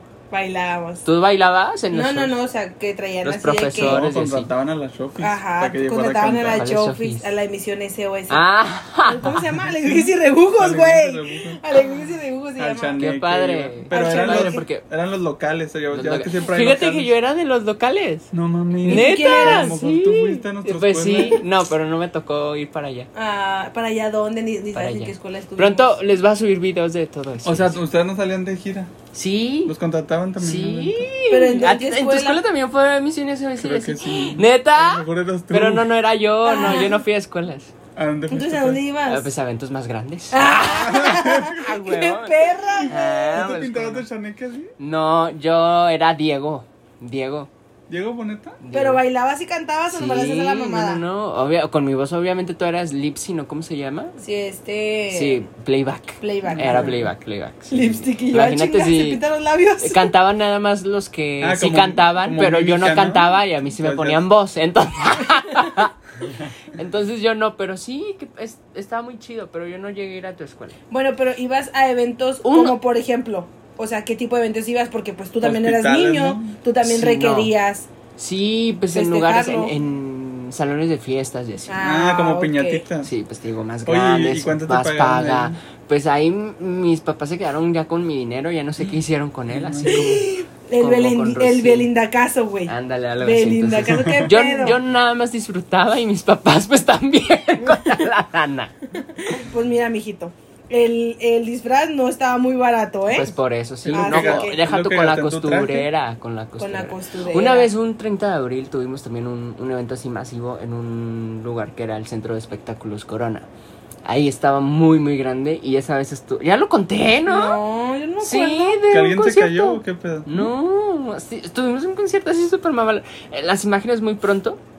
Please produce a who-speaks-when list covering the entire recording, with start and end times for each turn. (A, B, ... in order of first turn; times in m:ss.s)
0:00.3-0:01.1 A
0:01.0-0:02.4 B
0:01.9-0:04.1 A
0:03.2-0:04.5 B
0:03.8-0:06.7 C
0:05.2-0:08.4 A
0:06.5-0:07.4 B
0:08.3-0:09.2 B
0:09.0-0:13.0 A
0:09.2-0:11.6 C
0:12.6-0:17.1 C
0:13.0-0:14.8 B
0:13.9-0:14.7 A
0:15.9-0:18.3 B
0:18.3-0:21.4 C
0:18.8-0:23.1 B
0:18.9-0:19.8 A
0:23.2-0:26.0 A
0:24.7-0:27.8 B
0:27.4-0:28.9 C
0:29.1-0:29.7 B
0:29.6-0:31.1 C
0:30.4-0:37.7 B
0:31.3-0:32.4 A
0:33.6-0:35.9 C
0:36.4-0:37.0 A
0:38.0-0:38.8 C
0:38.3-0:39.3 A
0:39.1-0:44.1 B
0:40.3-0:43.4 A
0:40.6-0:41.7 C
0:42.9-0:44.7 C
0:44.8-0:47.5 B
0:47.9-0:48.6 C
0:48.6-0:49.0 B
0:48.7-0:51.0 A
0:49.9-0:54.2 B
0:54.2-0:55.4 A
0:55.1-0:59.2 B
0:56.2-0:57.0 A
0:56.5-0:57.0 C
0:57.7-1:00.1 A
0:59.8-1:05.9 B
1:01.4-1:04.2 C
1:06.7-1:10.8 B
1:10.9-1:17.9 A
1:12.4-1:12.8 B
1:15.4-1:16.5 C
1:16.8-1:17.5 B
1:18.2-1:21.8 B
1:18.9-1:19.8 A
1:21.7-1:22.9 A
1:21.8-1:23.1 C
1:22.9-1:31.9 B
1:23.8-1:25.6 C
1:29.5-1:30.2 C
1:29.9-1:34.8 A
1:32.7-1:38.7 B
1:33.8-1:34.3 C
1:39.0-1:43.3 A
1:43.1-1:53.5 B
1:43.8-1:45.9 C
1:43.9-1:44.6 A
1:46.6-1:47.7 A
1:54.0-1:57.6 B
1:57.3-1:58.8 A
1:58.2-2:04.6 B
1:58.9-2:00.5 C